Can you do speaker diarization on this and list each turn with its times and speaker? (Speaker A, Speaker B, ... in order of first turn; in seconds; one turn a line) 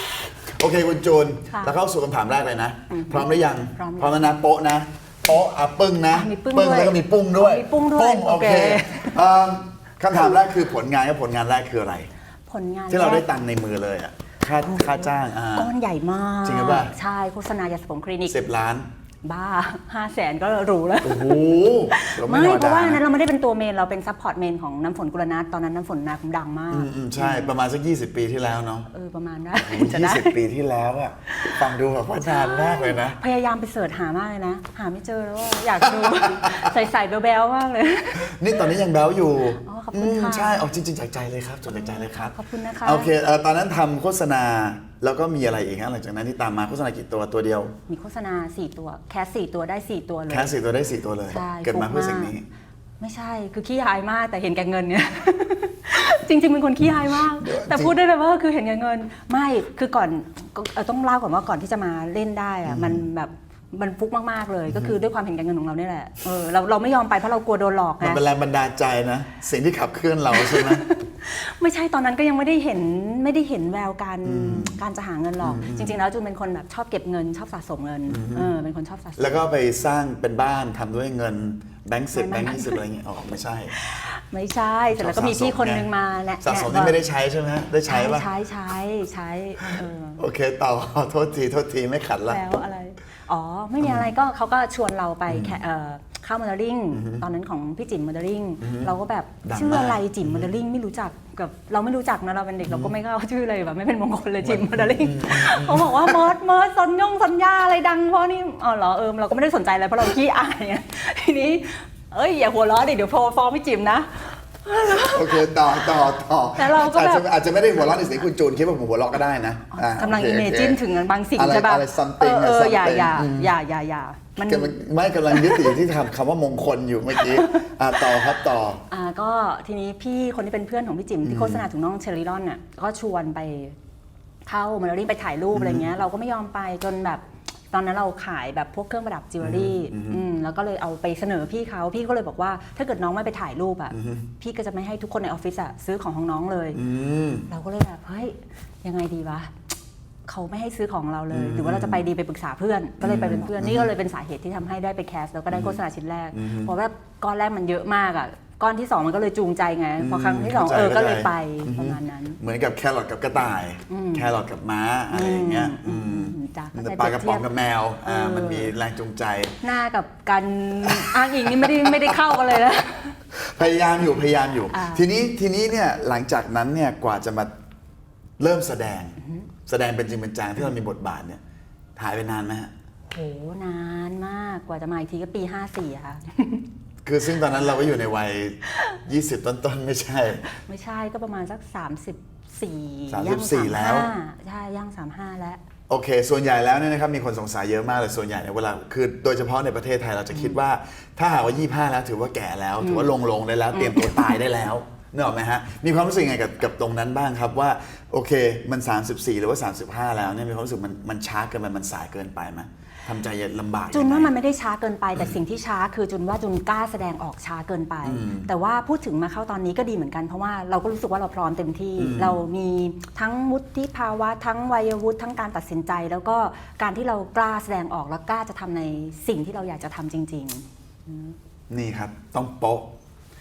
Speaker A: 0.6-12.1
Speaker B: 2.9-4.4
Speaker B: 6.1-9.2
Speaker B: 12.5-13.3
Speaker A: 12.9-15.7
Speaker B: 14.6-18.4
Speaker A: 16.4-16.9
Speaker A: 18.3-18.9
Speaker B: 19.2-27.5
Speaker A: 21.0-23.0
Speaker A: 26.7-28.9
Speaker B: 28.9-30.4
Speaker A: 29.6-33.2
Speaker B: 31.3-31.6
Speaker B: 32.1-38.6
Speaker A: 35.8-36.6
Speaker A: 38.2-47.7
Speaker B: 39.5-40.7
Speaker B: 41.7-43.1
Speaker B: 47.9-50.5
Speaker A: 50.3-52.4
Speaker B: 51.3-52.3
Speaker B: 53.0-68.2
Speaker A: 57.0-57.9
Speaker A: 62.6-63.0
Speaker A: 64.7-65.0
Speaker A: 68.0-70.8
Speaker B: 70.3-79.4
Speaker A: 74.2-74.8
Speaker A: 75.4-76.0
Speaker A: 78.1-78.5
Speaker A: 79.2-83.8
Speaker B: 82.1-82.8
Speaker B: 83.8-86.9
Speaker A: 84.9-85.9
Speaker A: 86.4-88.3
Speaker B: 87.9-90.2
Speaker A: 89.7-92.4
Speaker B: 92.3-115.9
Speaker A: 93.8-94.1
Speaker A: 95.3-95.6
Speaker A: 96.9-97.2
Speaker A: 98.6-98.9
Speaker A: 99.4-100.5
Speaker A: 102.6-102.9
Speaker A: 104.4-106.3
Speaker A: 114.8-120.8
Speaker B: 116.6-117.3
Speaker B: 119.7-124.7
Speaker A: 121.3-123.5
Speaker A: 124.4-128.8
Speaker B: 125.3-125.8
Speaker B: 127.2-128.3
Speaker B: 128.9-133.8
Speaker A: 131.2-131.7
Speaker B: 134.4-146.8
Speaker A: 135.5-135.9
Speaker A: 139.4-140.2
Speaker A: 143.9-144.2
Speaker A: 146.7-147.5
Speaker B: 147.5-149.5
Speaker B: 150.3-162.4
Speaker A: 151.3-152.0
Speaker A: 153.0-153.9
Speaker A: 155.5-155.8
Speaker A: 156.3-156.7
Speaker A: 160.0-169.6
Speaker B: 163.9-164.3
Speaker B: 165.1-167.5
Speaker B: 168.0-168.7
Speaker B: 169.6-173.2
Speaker A: 170.8-172.3
Speaker A: 173.3-177.5
Speaker B: 174.7-175.1
Speaker A: 178.4-181.4
Speaker B: 179.2-179.5
Speaker A: 181.9-182.7
Speaker B: 183.1-186.6
Speaker A: 187.0-190.4
Speaker B: 190.5-195.6
Speaker A: 193.1-194.1
Speaker A: 195.9-214.3
Speaker B: 200.3-200.6
Speaker B: 202.8-203.1
Speaker B: 203.7-204.4
Speaker B: 213.9-231.3
Speaker A: 218.0-218.5
Speaker A: 222.0-222.4
Speaker A: 231.7-232.9